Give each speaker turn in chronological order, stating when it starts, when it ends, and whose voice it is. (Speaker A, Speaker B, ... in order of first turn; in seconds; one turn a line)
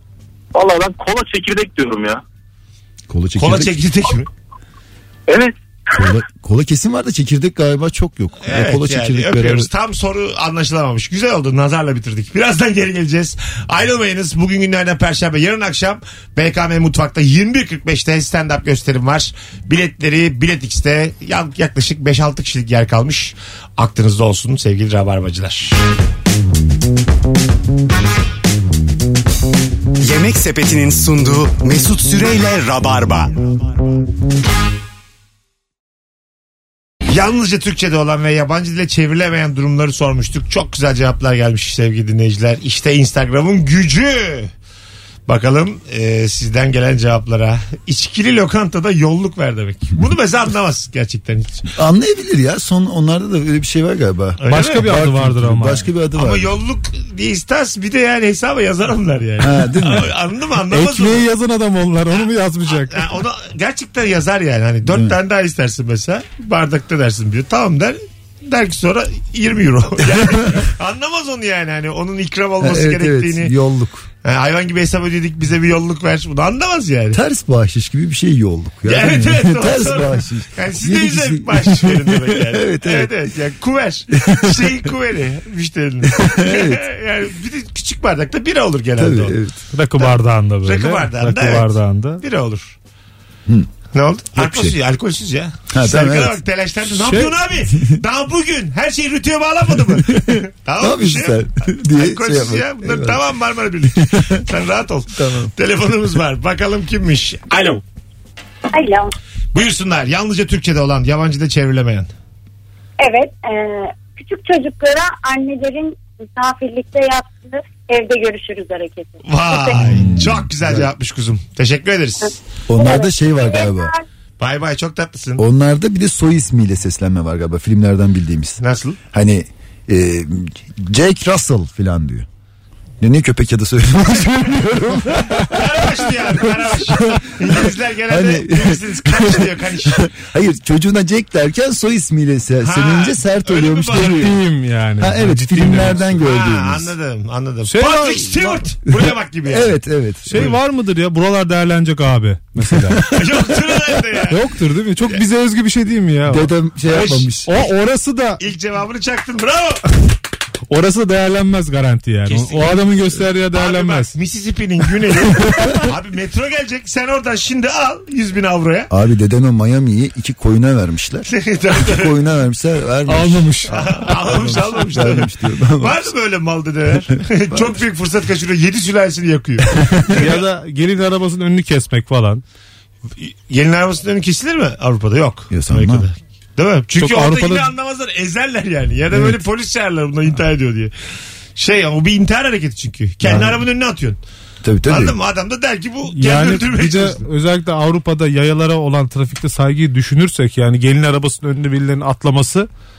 Speaker A: 0.5-2.2
Speaker B: 3.1-3.8
Speaker C: 3.4-4.3
Speaker A: 5.3-5.5
Speaker B: 5.9-9.7
Speaker C: 8.4-25.8
Speaker D: 30.0-33.3
Speaker C: 37.1-44.5
Speaker C: 45.3-51.7
Speaker B: 51.8-56.5
Speaker C: 54.4-54.9
Speaker E: 54.5-55.9
Speaker C: 56.1-61.3
Speaker B: 59.4-60.1
Speaker E: 60.7-63.1
Speaker C: 62.1-73.5
Speaker B: 64.9-65.2
Speaker B: 70.1-70.7
Speaker B: 72.6-74.1
Speaker C: 74.2-77.2
Speaker B: 77.1-83.3
Speaker C: 78.8-89.4
Speaker B: 84.2-84.8
Speaker B: 86.2-86.8
Speaker B: 89.0-89.6
Speaker E: 89.7-92.2
Speaker C: 90.0-92.8
Speaker C: 93.9-107.8
Speaker B: 94.3-94.8
Speaker B: 95.7-96.4
Speaker E: 96.9-97.3
Speaker B: 97.7-98.0
Speaker B: 99.9-103.2
Speaker B: 104.0-104.4
Speaker B: 105.2-105.5
Speaker F: 108.7-109.1
Speaker C: 109.5-112.1
Speaker F: 113.0-120.2
Speaker C: 119.2-122.4
Speaker B: 119.9-120.9
Speaker B: 122.7-123.9
Speaker F: 122.7-124.0
Speaker C: 124.4-125.4
Speaker B: 125.4-128.6
Speaker C: 128.6-129.0
Speaker B: 129.1-132.3
Speaker B: 133.0-144.4
Speaker C: 135.3-140.1
Speaker C: 142.6-144.3
Speaker E: 144.0-146.2
Speaker B: 145.0-146.9
Speaker C: 146.2-149.8
Speaker E: 147.7-148.6
Speaker B: 148.9-150.6
Speaker E: 150.3-153.1
Speaker C: 153.1-154.4
Speaker E: 154.3-156.5
Speaker B: 156.3-157.5
Speaker C: 156.9-157.3
Speaker E: 157.4-158.4
Speaker C: 158.4-159.8
Speaker E: 160.7-164.2
Speaker C: 162.3-162.9
Speaker C: 163.5-168.9
Speaker E: 165.3-165.9
Speaker B: 168.9-176.1
Speaker C: 171.3-172.1
Speaker E: 173.1-174.1
Speaker C: 173.7-180.3
Speaker B: 177.2-177.8
Speaker E: 180.1-182.4
Speaker C: 183.2-190.9
Speaker B: 185.5-186.1
Speaker E: 187.0-187.7
Speaker B: 189.1-189.4
Speaker C: 191.6-194.2
Speaker B: 193.2-193.6
Speaker B: 194.6-195.2
Speaker C: 194.9-197.2
Speaker E: 196.1-202.7